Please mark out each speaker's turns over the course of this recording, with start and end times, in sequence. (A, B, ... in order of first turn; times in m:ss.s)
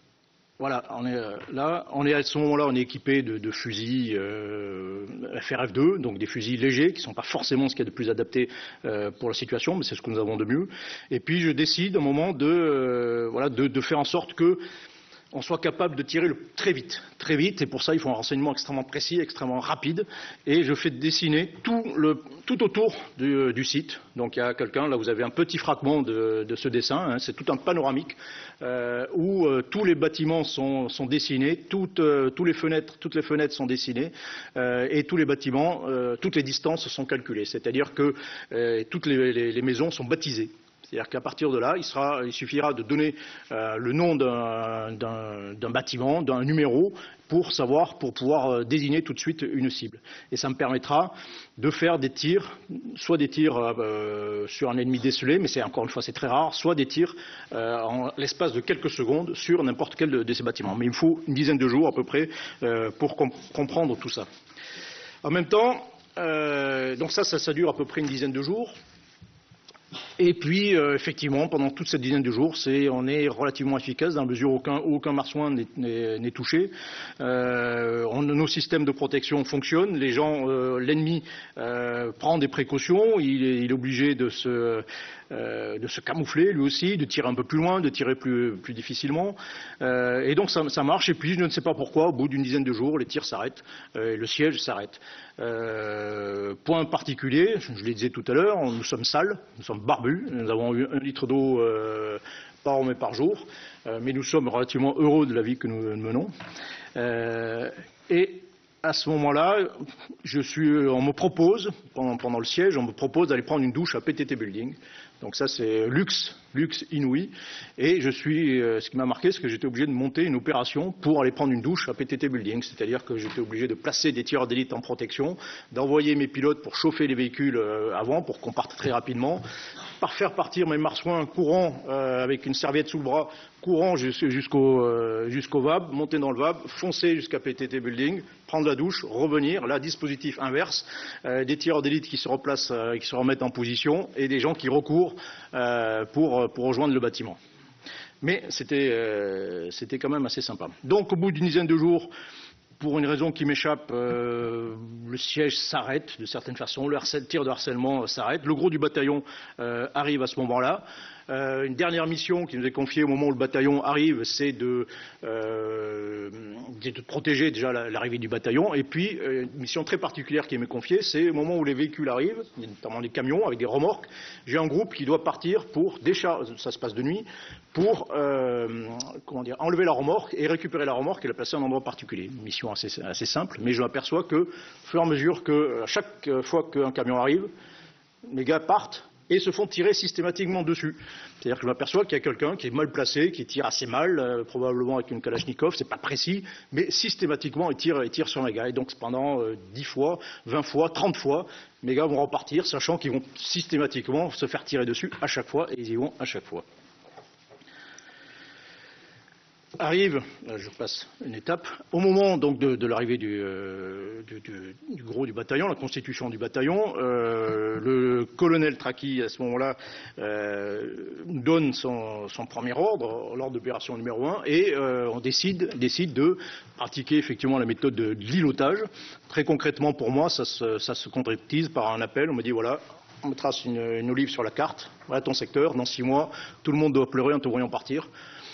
0:00.6-0:14.6 A
0:15.3-1:04.3 A
1:05.2-1:08.7 A
1:10.2-1:46.3 A
1:47.0-2:09.4 A
2:10.0-2:27.4 A
2:28.2-2:32.1 A
2:32.8-3:07.5 A
3:08.3-3:26.6 A
3:29.8-3:58.1 A